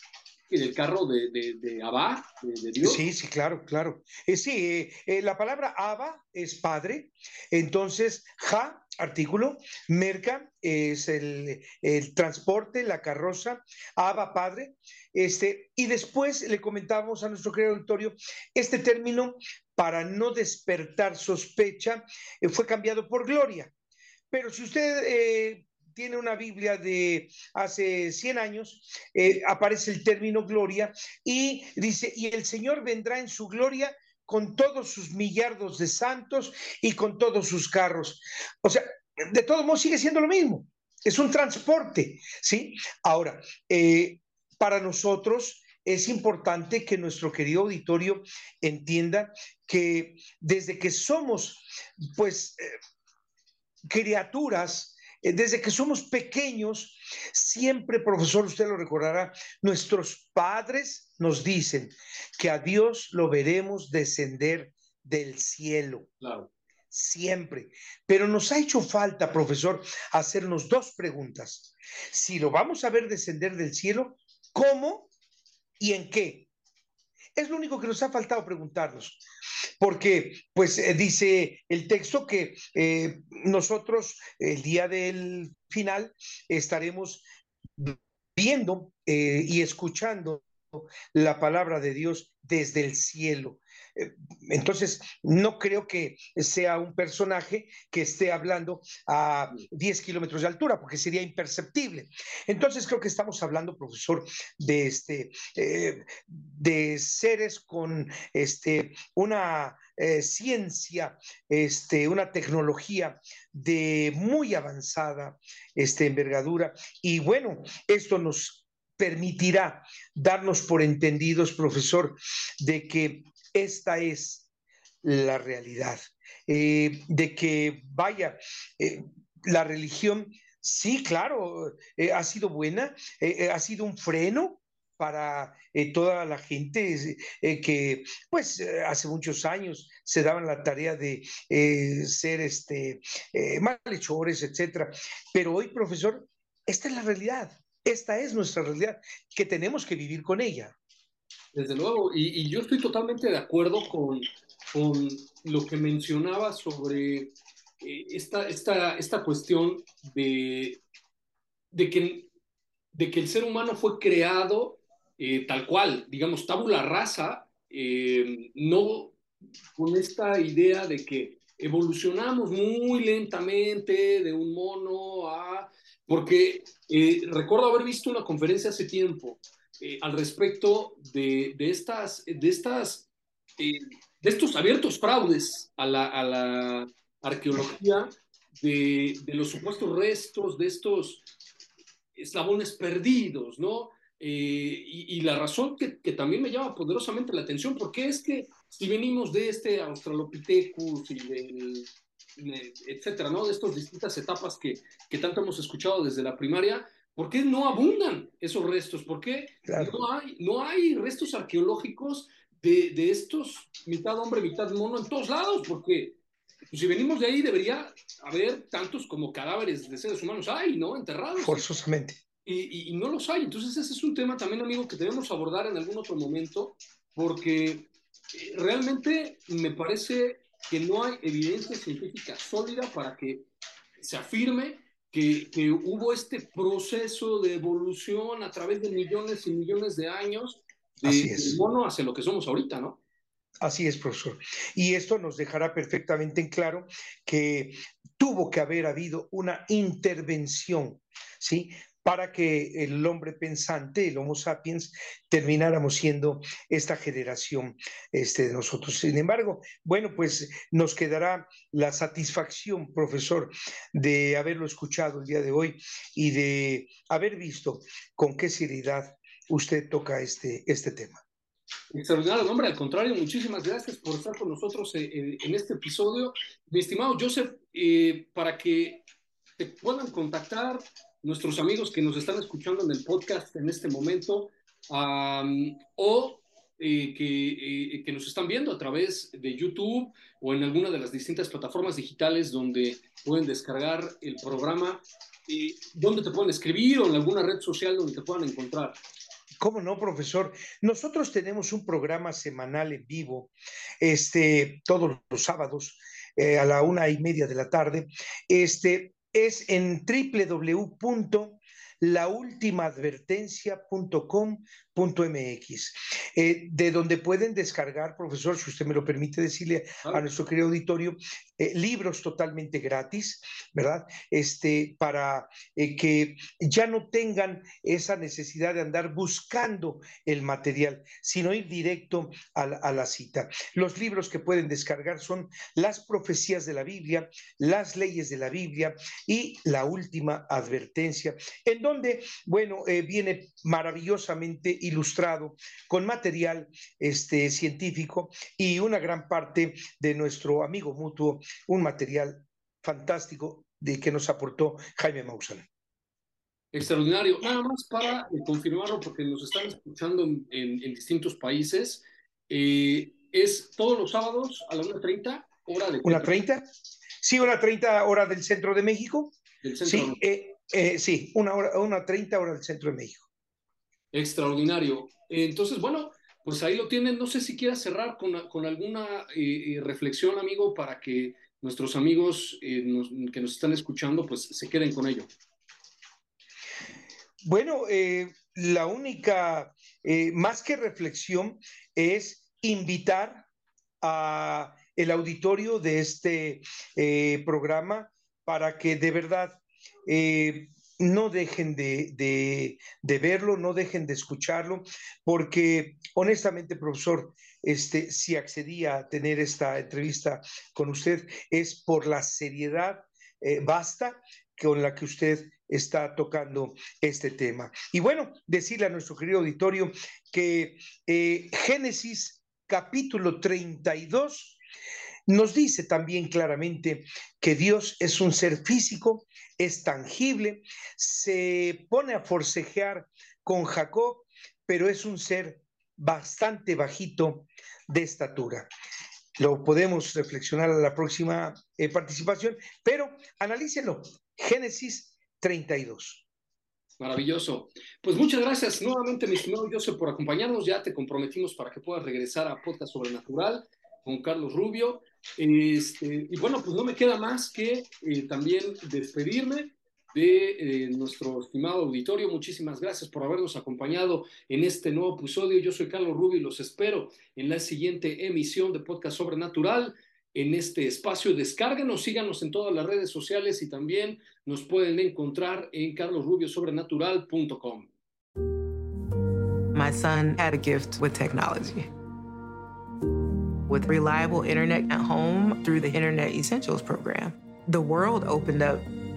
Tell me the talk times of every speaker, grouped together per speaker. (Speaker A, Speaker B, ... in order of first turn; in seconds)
Speaker A: 0.5-3.0, 66.2-66.5, 151.5-160.8, 161.7-162.3, 162.9-169.2, 169.8-191.2, 192.1-216.2, 216.7-221.6, 222.4-233.4, 234.0-243.0, 271.9-279.0, 279.6-299.0, 356.7-366.3, 369.6-370.2, 374.1-385.3, 447.0-477.9
Speaker B: 2.8-23.7, 24.3-52.8, 53.9-66.1, 66.9-75.1, 75.8-76.5, 77.3-79.2, 79.8-87.2, 87.8-124.5, 125.0-150.8, 209.6-210.0, 221.4-222.2, 241.0-241.6, 243.6-271.2, 299.6-355.6, 366.0-366.6, 367.2-369.3, 369.8-373.3, 387.4-393.4, 394.0-424.6, 425.3-438.7, 439.4-446.2
Speaker C: 479.7-481.9, 483.7-488.9